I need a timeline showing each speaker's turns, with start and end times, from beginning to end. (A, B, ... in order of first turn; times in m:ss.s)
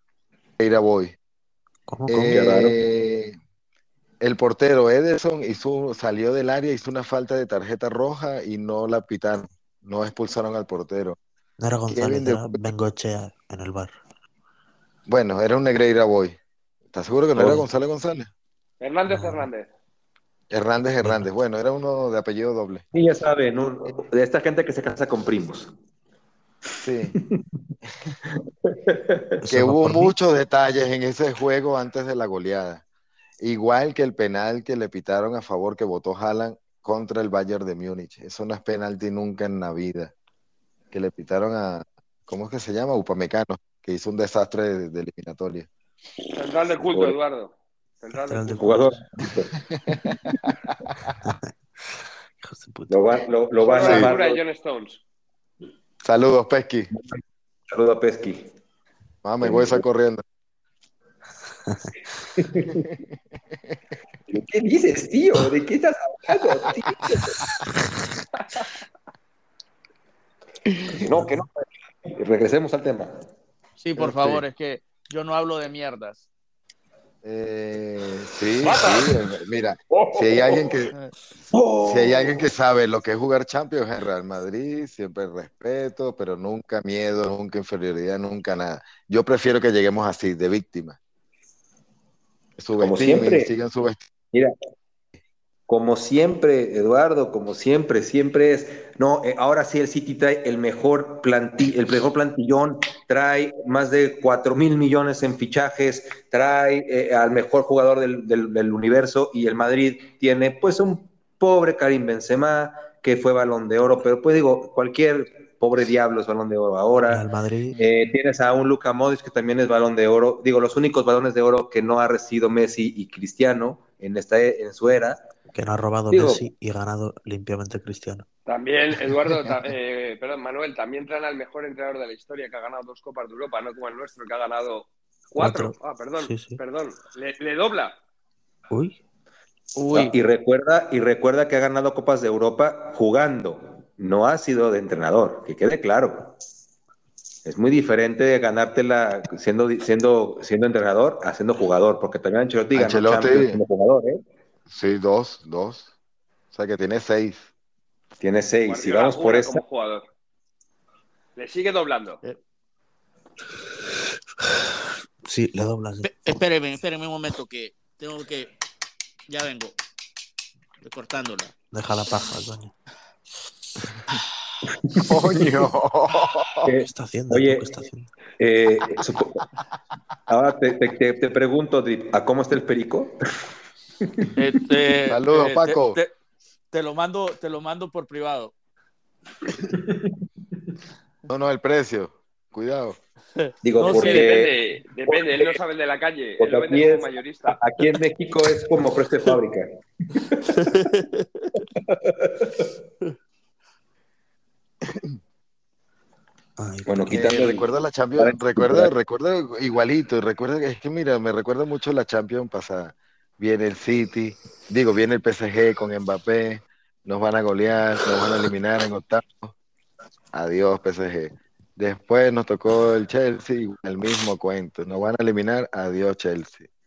0:00.6-0:01.2 A
0:01.9-0:02.7 B
0:02.1-0:03.4 A
0:02.3-0:02.8 C
0:04.2-0:11.2 A
0:11.6-0:13.9 B
0:11.9-0:12.6 A
0:15.1-0:16.4 A
0:16.9-0:18.3 A
0:17.4-0:17.6 C
0:18.8-0:19.7 D
0:19.1-0:19.5 B
0:20.5-0:22.8 A
0:22.9-0:25.7 C
0:26.8-0:27.2 A
0:28.7-0:29.3 C
0:29.4-0:30.1 B
0:29.5-0:32.8 A
0:33.4-0:40.1 A
0:40.9-0:45.7 A
0:46.3-0:48.7 D
0:46.9-0:47.2 C
0:48.3-0:49.0 B
0:48.6-0:49.6 C
0:49.9-0:50.5 A
0:51.2-0:51.5 B
0:52.4-0:53.1 B
0:52.9-0:54.4 C
0:53.6-0:55.0 D
0:53.8-0:54.1 A
0:56.0-0:56.9 A
0:56.9-0:58.5 C
0:59.2-1:00.2 A
0:59.4-0:59.8 C
1:01.7-1:01.9 B
1:02.4-1:02.9 C
1:04.3-1:07.6 C
1:10.7-1:11.0 A
1:10.9-1:13.2 C
1:13.8-1:16.2 E
1:14.0-1:14.4 A
1:17.2-1:20.9 A
1:18.6-1:19.1 D
1:19.9-1:20.6 C
1:21.5-1:22.4 C
1:21.8-1:31.0 A
1:32.6-1:34.0 A
1:32.8-1:33.5 C
1:35.7-1:57.2 C
1:57.1-1:57.8 B
1:57.8-2:05.3 C
2:05.5-2:08.3 B
2:06.1-2:06.4 C
2:08.5-2:18.0 D
2:15.4-2:16.6 B
2:18.7-2:19.0 B
2:19.8-2:20.2 E
2:19.9-2:26.4 C
2:27.4-2:34.2 C
2:32.7-2:33.6 A
2:34.7-2:35.9 A
2:36.5-2:37.5 A
2:38.2-2:39.6 C
2:38.7-2:40.1 D
2:41.4-2:42.2 D
2:45.2-2:46.4 B
2:46.0-2:48.5 E
2:49.3-2:49.8 E
2:50.8-2:51.5 E
2:51.7-2:52.7 B
2:55.1-2:56.7 A
2:56.6-2:57.7 C
2:56.8-2:58.1 B
2:58.4-2:59.4 C
3:00.3-3:03.2 C
3:04.4-3:06.1 E
3:05.1-3:06.0 A
3:06.7-3:08.5 E
3:09.6-3:10.1 C
3:11.3-3:13.0 A
3:13.4-3:14.4 E
3:13.6-3:14.6 C
3:13.8-3:17.6 D
3:15.1-3:15.6 C
3:16.4-3:20.6 C
3:20.5-3:21.5 E
3:21.8-3:22.5 C
3:24.8-3:25.1 A
3:26.6-3:27.5 B
3:26.9-3:27.7 C
3:27.1-3:39.5 A
3:28.2-3:28.9 C
3:40.3-3:46.6 A